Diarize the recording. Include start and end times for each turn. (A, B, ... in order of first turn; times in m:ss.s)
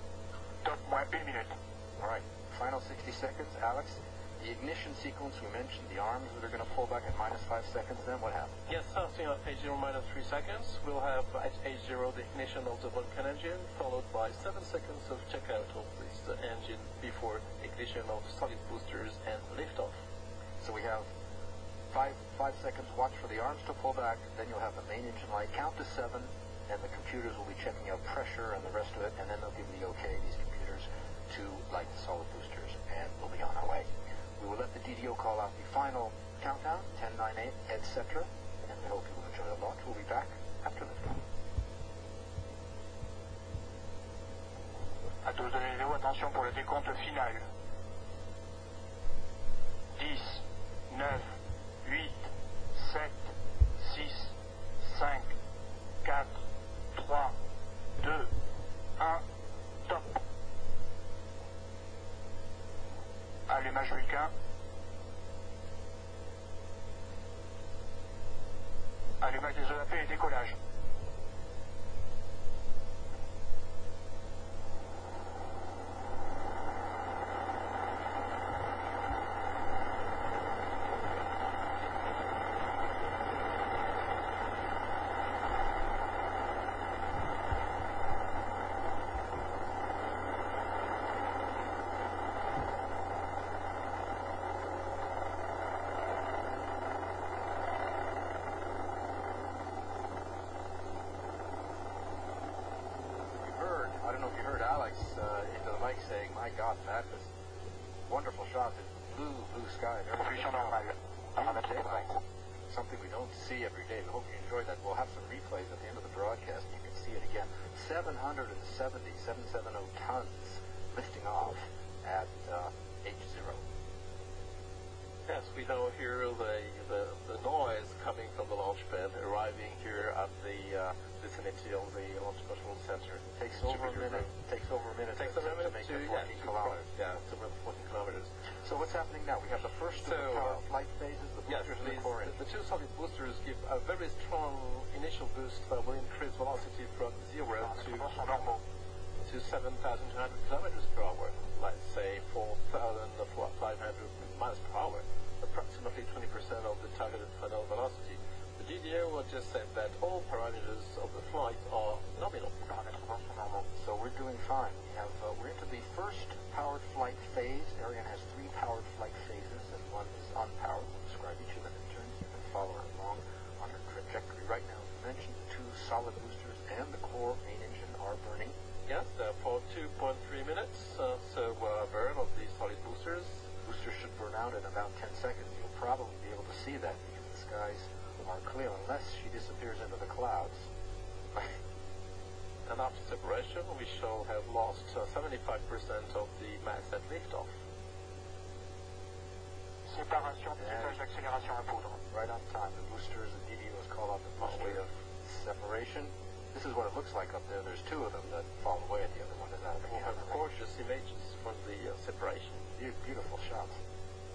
0:00.6-0:01.5 A
0:02.0-0:08.5 B
0:08.7-0:20.0 C
0:20.6-0:21.1 B
0:21.9-0:33.9 B
0:34.4-0:41.2 B
0:45.2-0:47.4 A
0:49.9-0:51.3 A
0:51.8-0:55.3 A
0:56.0-0:56.3 A
0:56.9-0:57.4 A
0:58.0-0:58.3 A
0:59.0-0:59.2 A
0:59.8-1:00.2 A
1:03.5-1:04.3 A
1:09.2-1:10.5 A
1:43.3-1:47.3 B
1:48.1-1:52.2 B
1:50.2-1:52.1 A
1:52.7-2:03.6 B
2:05.3-2:14.3 C
2:13.4-2:16.8 B
2:15.2-2:18.3 C
2:18.6-2:22.4 B
2:20.0-2:20.6 C
2:21.5-2:28.1 C
2:27.6-2:28.6 A
2:29.2-2:42.5 C
2:42.6-2:43.6 A
2:43.7-2:58.5 B
2:58.9-3:03.4 C
3:03.6-3:10.7 B
3:12.7-3:17.5 C
3:19.8-3:22.0 A
3:20.6-3:21.0 B
3:22.1-3:30.5 B
3:24.4-3:24.9 C
3:29.8-3:32.6 C
3:32.8-3:33.7 B